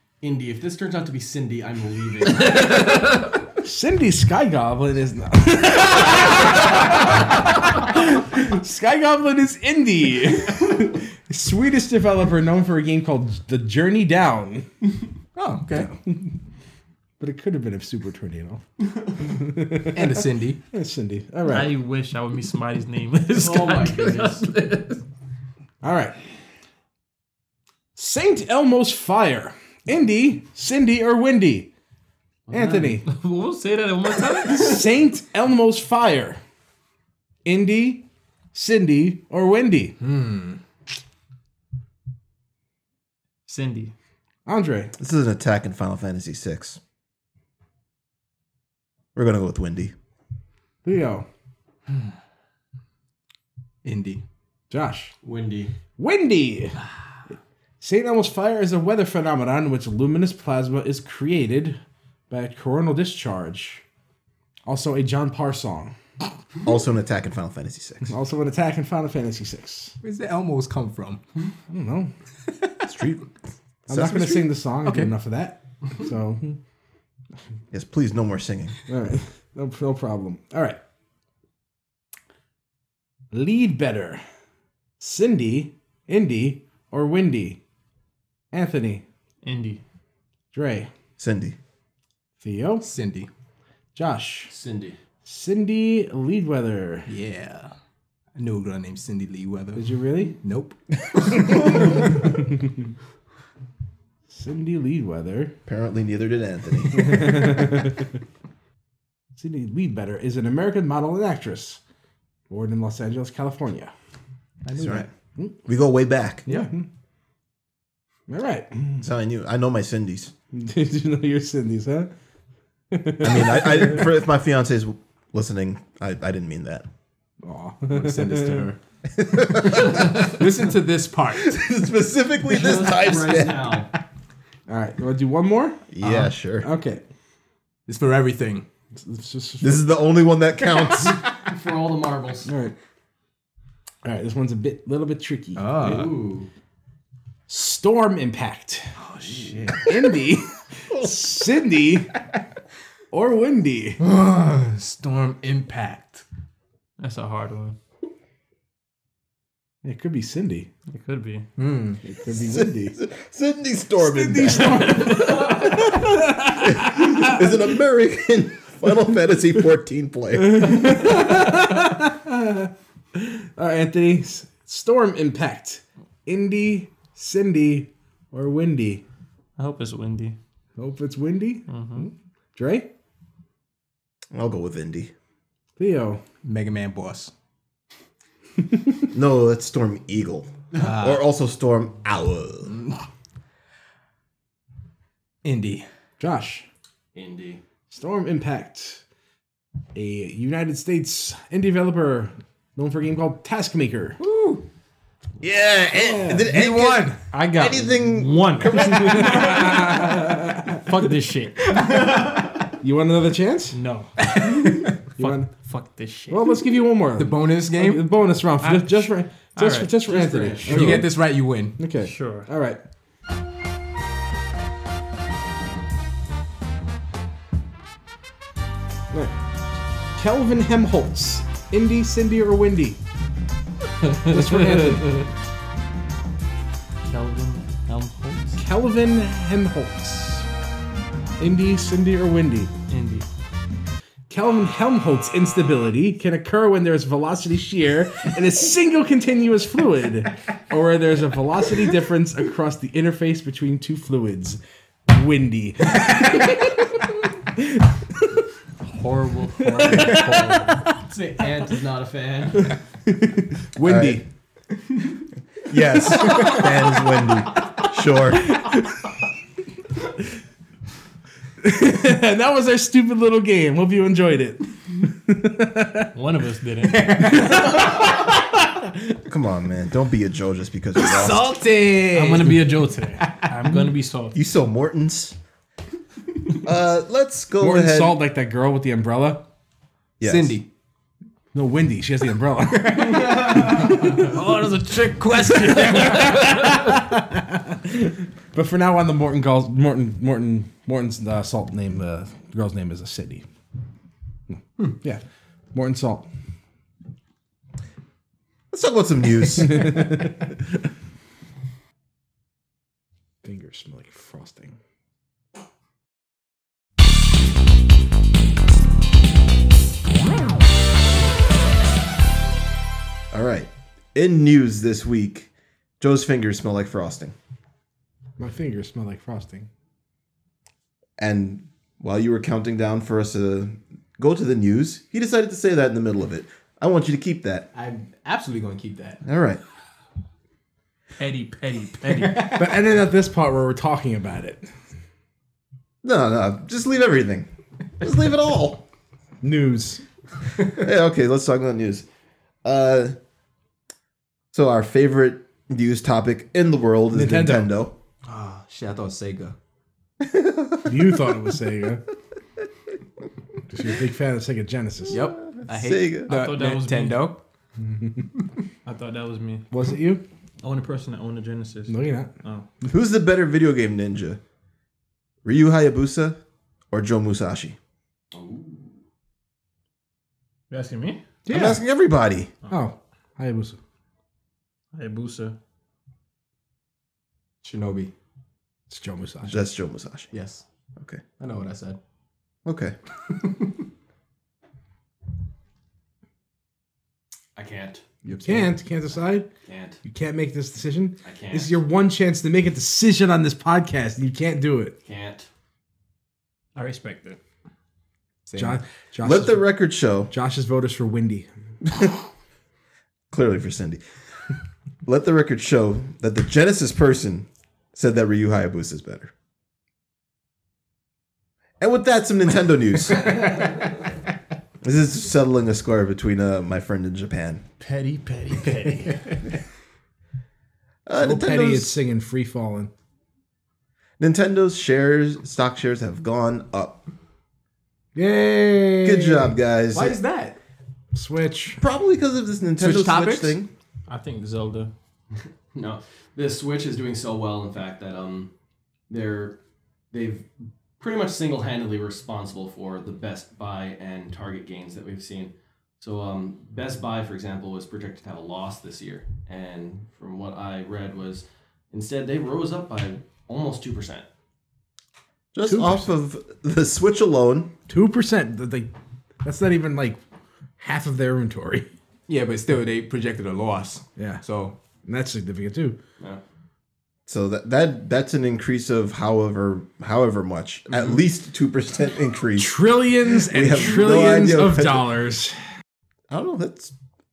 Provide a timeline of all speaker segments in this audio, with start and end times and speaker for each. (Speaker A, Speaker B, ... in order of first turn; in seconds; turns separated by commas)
Speaker A: 0.2-2.7, Speaker B: 2.6-14.7, Speaker C: 15.3-15.9, Speaker B: 15.7-16.3, Speaker B: 17.2-18.6, Speaker B: 19.2-21.8, Speaker C: 19.9-20.6, Speaker D: 21.5-25.0, Speaker A: 23.3-24.5, Speaker B: 25.8-26.2, Speaker B: 28.0-31.7, Speaker A: 32.5-32.8, Speaker B: 32.5-33.1, Speaker D: 33.0-34.9, Speaker B: 34.4-36.4, Speaker B: 37.5-40.0, Speaker C: 40.0-40.6, Speaker D: 43.5-43.9, Speaker B: 44.5-44.9, Speaker E: 45.0-46.8, Speaker E: 49.1-49.9, Speaker B: 50.8-51.3, Speaker C: 53.8-54.2, Speaker B: 54.7-55.1, Speaker A: 55.2-55.7, Speaker B: 56.0-56.8, Speaker B: 57.8-61.8, Speaker B: 62.3-63.8, Speaker B: 64.7-66.0, Speaker E: 66.6-68.1, Speaker B: 68.1-70.0, Speaker C: 70.0-71.2, Speaker B: 71.7-72.1, Speaker E: 72.8-73.3, Speaker E: 73.9-74.5, Speaker B: 73.9-76.6, Speaker C: 74.8-75.1, Speaker E: 77.7-78.8, Speaker B: 78.9-80.8, Speaker B: 83.3-84.2, Speaker B: 85.0-87.6, Speaker B: 88.5-89.0, Speaker D: 89.4-89.8, Speaker B: 90.5-90.9, Speaker E: 91.2-91.6, Speaker B: 92.4-92.9, Speaker C: 92.8-93.3, Speaker B: 94.0-94.5, Speaker A: 94.5-95.0, Speaker B: 95.2-97.1, Speaker C: 97.1-97.7, Speaker C: 98.4-102.1, Speaker B: 99.8-100.3, Speaker B: 104.3-105.5, Speaker E: 105.7-107.8, Speaker B: 106.9-108.1, Speaker B: 109.4-111.8, Speaker B: 112.5-113.9, Speaker C: 114.7-115.1, Speaker E: 114.8-115.1, Speaker E: 115.7-116.5, Speaker B: 116.5-116.9, Speaker B: 118.3-119.1, Speaker E: 119.0-120.3, Speaker B: 120.5-122.1, Speaker B: 122.9-124.1, Speaker E: 123.2-126.9, Speaker B: 127.4-128.7, Speaker C: 127.9-128.8, Speaker E: 129.2-130.3, Speaker C: 129.6-131.7, Speaker E: 131.4-133.9, Speaker A: 132.5-133.9, Speaker B: 134.7-135.9, Speaker E: 135.9-136.7, Speaker C: 136.0-136.3, Speaker B: 136.6-137.0, Speaker C: 137.9-138.7, Speaker B: 138.9-140.0, Speaker E: 139.6-141.2, Speaker A: 141.4-142.5, Speaker B: 142.5-142.8, Speaker B: 144.0-146.1, Speaker C: 145.6-146.2, Speaker A: 145.8-146.5, Speaker B: 147.5-149.0, Speaker C: 149.0-150.0, Speaker B: 149.7-152.1, Speaker B: 153.1-154.0, Speaker C: 154.0-156.2, Speaker D: 157.0-157.8, Speaker B: 159.8-160.7, Speaker D: 160.9-161.5, Speaker C: 161.6-162.0, Speaker B: 162.0-163.0, Speaker E: 162.4-171.1, Speaker B: 164.0-167.4, Speaker B: 170.3-179.0, Speaker D: 179.6-180.4, Speaker B: 180.8-182.9, Speaker D: 181.7-182.1, Speaker E: 184.3-185.1, Speaker B: 185.8-186.2, Speaker C: 186.4-187.3, Speaker E: 189.1-192.8, Speaker C: 190.8-191.2, Speaker C: 192.7-193.0, Speaker C: 195.4-195.9, Speaker B: 196.2-196.7, Speaker A: 197.2-197.6, Speaker B: 197.9-199.0, Speaker B: 199.9-204.2, Speaker C: 204.2-204.6, Speaker E: 205.4-209.7, Speaker B: 206.0-206.5, Speaker C: 206.4-207.2, Speaker D: 207.3-209.8, Speaker B: 209.1-210.8, Speaker D: 210.7-211.9, Speaker B: 212.8-213.8, Speaker D: 213.7-216.6, Speaker C: 214.3-214.8, Speaker B: 215.2-215.5, Speaker B: 216.3-221.2, Speaker C: 217.2-218.1, Speaker D: 218.6-221.1, Speaker C: 220.6-221.8, Speaker B: 221.8-222.8, Speaker D: 222.0-222.5, Speaker B: 229.1-229.4, Speaker B: 230.2-233.0, Speaker D: 234.1-234.9, Speaker B: 234.1-235.3, Speaker D: 237.1-238.6, Speaker B: 238.6-240.5, Speaker B: 241.4-242.7, Speaker D: 242.9-243.3, Speaker B: 244.3-257.9, Speaker D: 258.9-260.8, Speaker B: 259.7-260.8, Speaker A: 261.1-262.8, Speaker B: 263.6-264.2, Speaker E: 263.8-264.2, Speaker E: 265.7-268.7, Speaker B: 271.6-276.1, Speaker D: 276.1-277.5, Speaker C: 277.1-277.8, Speaker B: 277.3-278.0, Speaker E: 279.3-281.6, Speaker C: 280.9-283.5, Speaker D: 282.1-284.4, Speaker E: 284.3-285.4, Speaker E: 286.6-288.2, Speaker B: 287.6-289.4, Speaker E: 290.2-290.6, Speaker C: 290.2-290.7, Speaker B: 291.5-293.9, Speaker D: 293.6-296.8, Speaker B: 296.0-303.4, Speaker B: 304.5-306.3, Speaker E: 308.7-310.3, Speaker B: 309.7-310.3, Speaker B: 313.4-314.8, Speaker E: 323.3-327.4, Speaker B: 328.4-329.7, Speaker E: 331.2-337.7, Speaker C: 337.7-339.2, Speaker E: 339.2-339.6, Speaker D: 341.2-342.6, Speaker C: 342.1-342.6, Speaker B: 342.5-344.7, Speaker E: 346.0-347.5, Speaker E: 348.0-348.9, Speaker B: 349.4-350.0, Speaker E: 350.7-352.1, Speaker E: 352.6-353.1, Speaker E: 354.5-357.9, Speaker B: 357.1-357.7, Speaker C: 358.3-359.6, Speaker E: 360.2-361.1, Speaker B: 360.9-362.0, Speaker B: 363.7-365.3, Speaker C: 365.1-367.4, Speaker E: 365.6-366.3, Speaker D: 366.3-367.3, Speaker B: 367.8-368.2, Speaker D: 368.9-369.6, Speaker B: 369.7-370.2, Speaker D: 370.6-372.7, Speaker B: 371.9-372.3, Speaker E: 372.8-374.4, Speaker E: 375.4-376.4, Speaker E: 376.9-377.8, Speaker A: 378.3-379.0, Speaker D: 380.7-381.3, Speaker B: 381.5-381.8, Speaker E: 381.5-382.5, Speaker B: 382.7-383.8, Speaker D: 384.9-385.6, Speaker C: 387.6-388.1, Speaker B: 388.9-389.7, Speaker E: 389.4-390.3, Speaker C: 390.3-390.6, Speaker C: 391.4-392.0, Speaker E: 392.6-393.0, Speaker A: 397.6-398.0, Speaker C: 398.2-398.7, Speaker B: 398.4-399.5, Speaker A: 399.7-400.0, Speaker B: 400.0-405.0, Speaker A: 401.2-401.8, Speaker A: 405.1-405.5, Speaker D: 406.8-407.4, Speaker C: 408.5-408.8, Speaker B: 408.6-409.7, Speaker E: 409.2-410.3, Speaker B: 410.3-411.5, Speaker E: 413.3-414.0, Speaker E: 415.1-419.3, Speaker E: 421.8-423.8, Speaker E: 424.8-427.6, Speaker D: 427.8-429.5, Speaker E: 431.1-432.0, Speaker B: 431.2-432.9, Speaker E: 434.2-437.0, Speaker B: 438.1-439.6, Speaker E: 439.0-440.2, Speaker C: 439.9-440.6, Speaker B: 441.1-441.8, Speaker E: 441.8-443.7, Speaker C: 442.8-443.6, Speaker D: 444.1-444.9, Speaker A: 445.7-448.5, Speaker A: 449.1-449.6, Speaker A: 450.1-450.5, Speaker A: 451.0-464.3, Speaker E: 465.5-467.7, Speaker B: 465.7-466.1, Speaker B: 467.9-468.9, Speaker B: 469.4-470.2, Speaker B: 470.8-471.9, Speaker C: 472.3-474.8, Speaker B: 474.2-474.4, Speaker B: 475.1-476.0, Speaker E: 477.3-482.8, Speaker B: 482.6-485.6, Speaker E: 483.4-485.1, Speaker E: 486.3-486.9